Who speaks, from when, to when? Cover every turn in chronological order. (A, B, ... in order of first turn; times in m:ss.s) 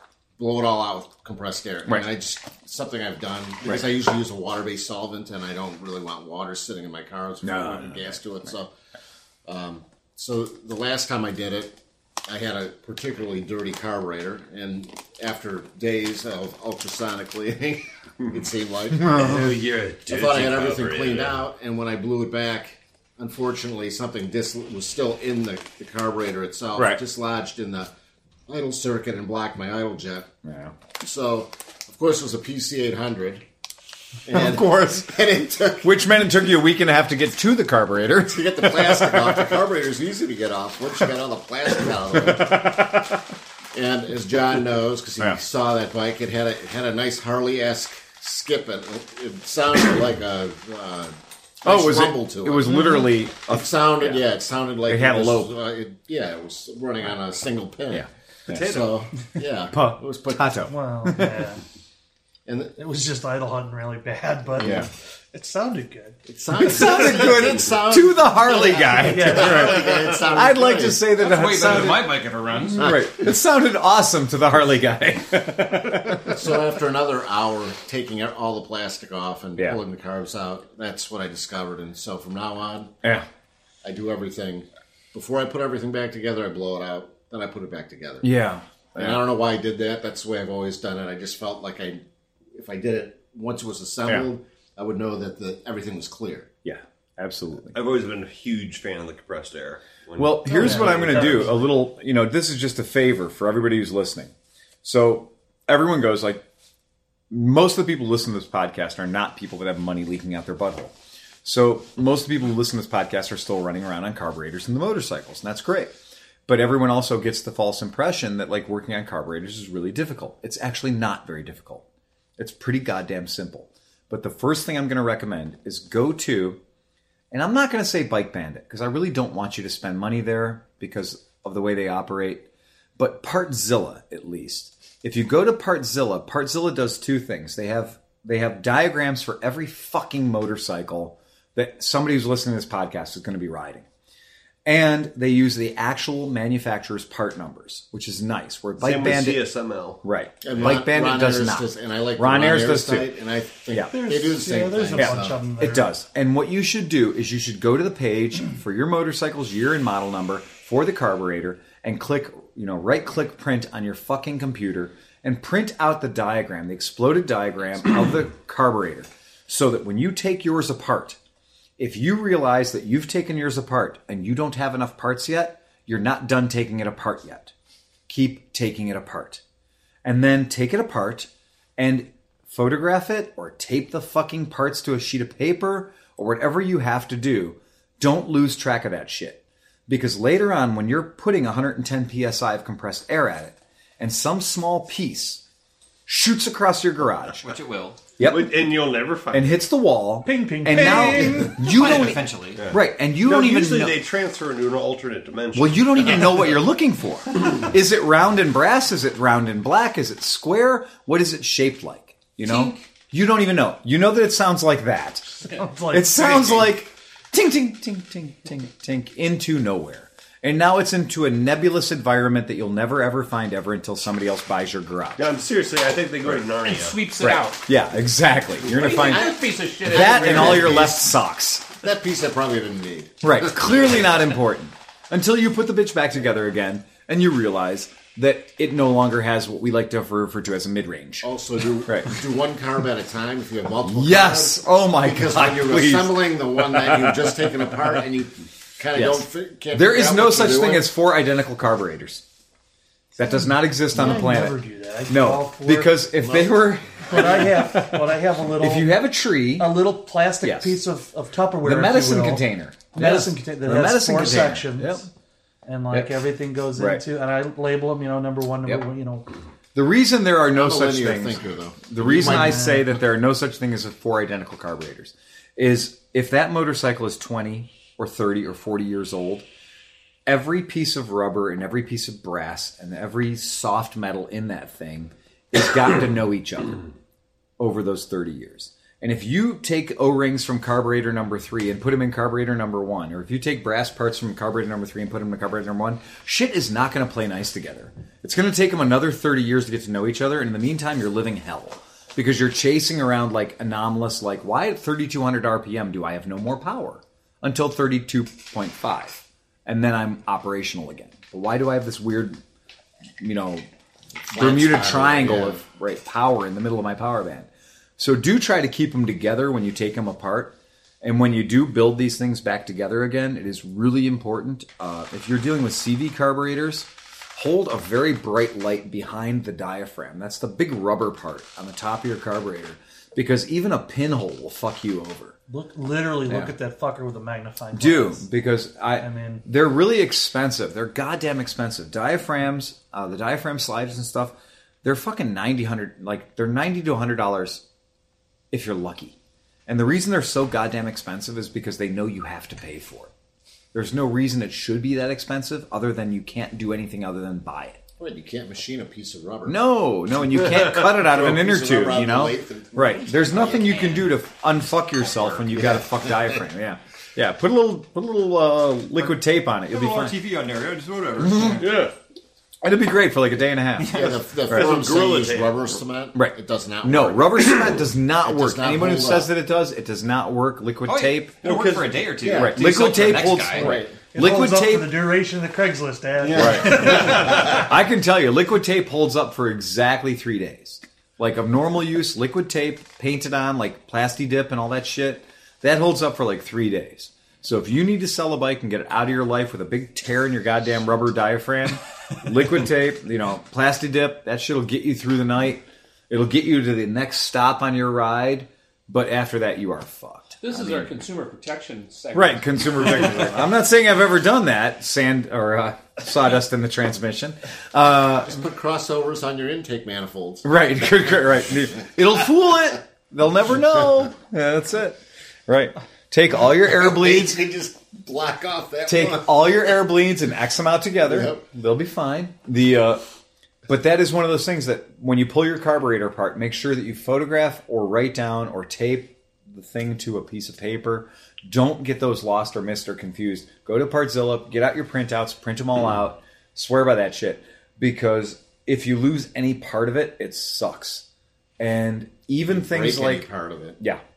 0:00.4-0:08.7 A
0:07.4-0:08.2 B
0:09.4-0:19.1 A
0:18.9-0:19.5 B
0:19.1-0:21.4 C
0:20.0-0:27.9 A
0:26.7-0:27.0 B
0:28.5-0:30.3 A
0:30.4-0:30.7 B
0:31.0-0:33.4 A
0:34.2-0:35.9 A
0:34.3-0:35.1 B
0:35.8-0:39.5 B
0:38.3-0:42.7 A
0:42.1-0:43.2 B
0:43.7-1:00.5 A
0:51.6-0:54.2 B
0:54.9-0:55.5 B
0:57.9-0:58.8 B
0:59.7-1:01.4 B
1:00.7-1:01.6 D
1:02.4-1:02.8 A
1:02.8-1:06.2 D
1:04.6-1:04.8 A
1:04.6-1:04.9 B
1:06.2-1:11.0 A
1:06.5-1:16.3 B
1:09.0-1:09.7 D
1:11.1-1:12.9 E
1:16.2-1:23.0 A
1:23.8-1:28.3 A
1:28.2-1:29.2 B
1:29.0-1:36.5 A
1:36.6-1:37.8 B
1:37.7-1:41.5 C
1:40.2-1:44.3 B
1:40.5-1:41.7 D
1:44.8-1:46.4 B
1:47.3-1:55.9 B
1:56.5-2:01.8 B
2:02.4-2:06.6 B
2:07.3-2:12.4 B
2:13.0-2:23.8 B
2:24.6-2:29.4 B
2:28.8-2:30.0 C
2:30.0-2:33.1 B
2:30.4-2:35.4 A
2:33.7-2:33.9 B
2:33.9-2:35.9 D
2:34.9-2:51.2 B
2:51.8-2:57.5 B
2:58.1-2:59.4 B
3:00.0-3:15.4 B
3:16.1-3:17.5 B
3:17.4-3:18.1 E
3:18.2-3:18.7 B
3:18.2-3:19.6 C
3:19.3-3:24.0 B
3:20.2-3:21.6 D
3:21.2-3:21.9 C
3:21.6-3:22.7 E
3:22.6-3:26.5 C
3:25.5-3:45.2 B
3:35.5-3:36.7 D
3:45.2-3:47.0 C
3:46.6-3:47.6 F
3:47.2-3:51.6 B
3:48.6-3:50.9 F
3:49.8-3:51.0 A
3:51.8-3:54.0 A
3:53.2-4:01.3 B
4:01.2-4:10.9 A
4:01.8-4:02.1 B
4:03.8-4:07.3 B
4:08.9-4:12.2 B
4:13.2-4:18.0 B
4:13.9-4:16.0 D
4:16.2-4:16.7 A
4:17.1-4:19.0 D
4:18.6-4:19.8 B
4:19.6-4:25.0 D
4:20.4-4:20.8 B
4:21.6-4:25.0 B
4:25.6-4:29.3 D
4:25.9-4:26.2 B
4:26.8-4:27.0 B
4:29.7-4:39.4 B
4:30.5-4:32.6 A
4:32.0-4:32.8 D
4:40.2-4:46.9 B
4:47.6-5:12.4 B
5:13.2-5:13.6 B
5:14.3-5:15.6 A
5:14.3-5:35.4 B
5:35.5-5:38.2 D
5:36.3-5:36.5 B
5:37.7-5:47.6 B
5:39.0-5:39.4 D
5:48.5-5:49.2 B
5:49.7-5:53.1 B
5:53.7-5:57.8 B
5:58.0-5:59.6 A
5:59.4-6:10.2 B
6:00.9-6:03.9 A
6:03.5-6:04.1 E
6:05.5-6:06.3 A
6:09.0-6:11.8 E
6:11.2-6:11.6 B
6:11.6-6:11.9 C
6:12.6-6:13.9 B
6:13.8-6:14.3 E
6:13.9-6:19.3 A
6:14.4-6:15.7 C
6:16.1-6:21.3 B
6:20.8-6:23.8 E
6:21.4-6:22.0 C
6:22.2-6:22.6 A
6:22.3-6:25.0 B
6:23.5-6:24.0 A
6:24.1-6:27.6 D
6:26.3-6:26.5 A
6:26.3-6:27.4 C
6:26.3-6:50.9 B
6:50.4-6:53.4 F
6:52.1-6:58.4 B
6:58.2-7:00.4 A
7:00.4-7:07.4 B
7:06.6-7:09.7 A
7:08.9-7:13.0 B
7:11.0-7:11.4 A
7:13.7-7:31.0 B
7:31.6-7:33.3 B
7:32.5-7:33.8 A